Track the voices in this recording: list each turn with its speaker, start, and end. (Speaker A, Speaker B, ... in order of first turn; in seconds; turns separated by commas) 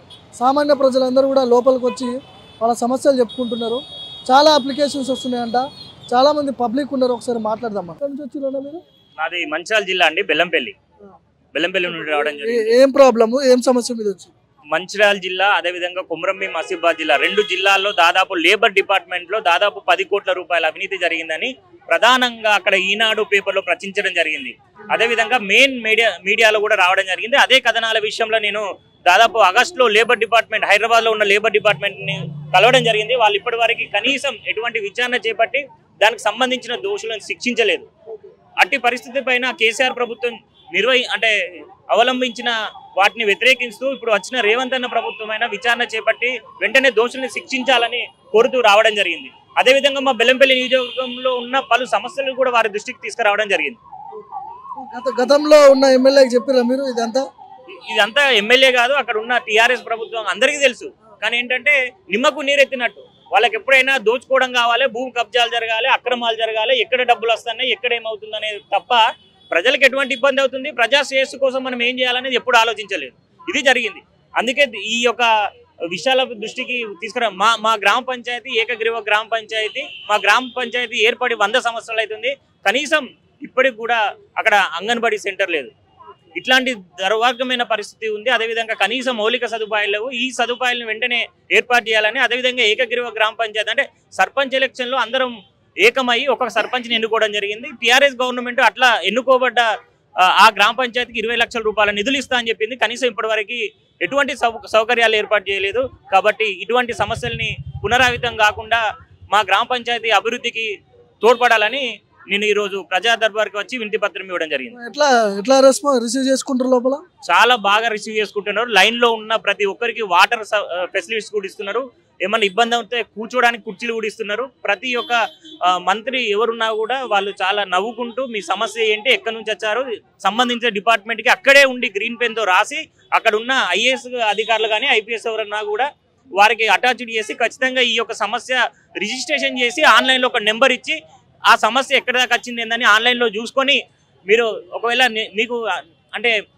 Speaker A: 0.4-8.8, Speaker B: 9.2-10.7, Speaker B: 11.5-12.7, Speaker A: 12.4-14.3, Speaker B: 14.7-37.9, Speaker B: 38.6-41.3, Speaker B: 41.9-53.8, Speaker A: 54.8-57.2, Speaker B: 57.9-75.2, Speaker B: 75.9-85.7, Speaker B: 86.4-95.3, Speaker B: 95.8-99.6, Speaker B: 100.4-110.7, Speaker B: 111.2-114.7, Speaker A: 114.7-117.0, Speaker B: 117.3-125.1, Speaker B: 125.8-141.0, Speaker B: 141.5-145.6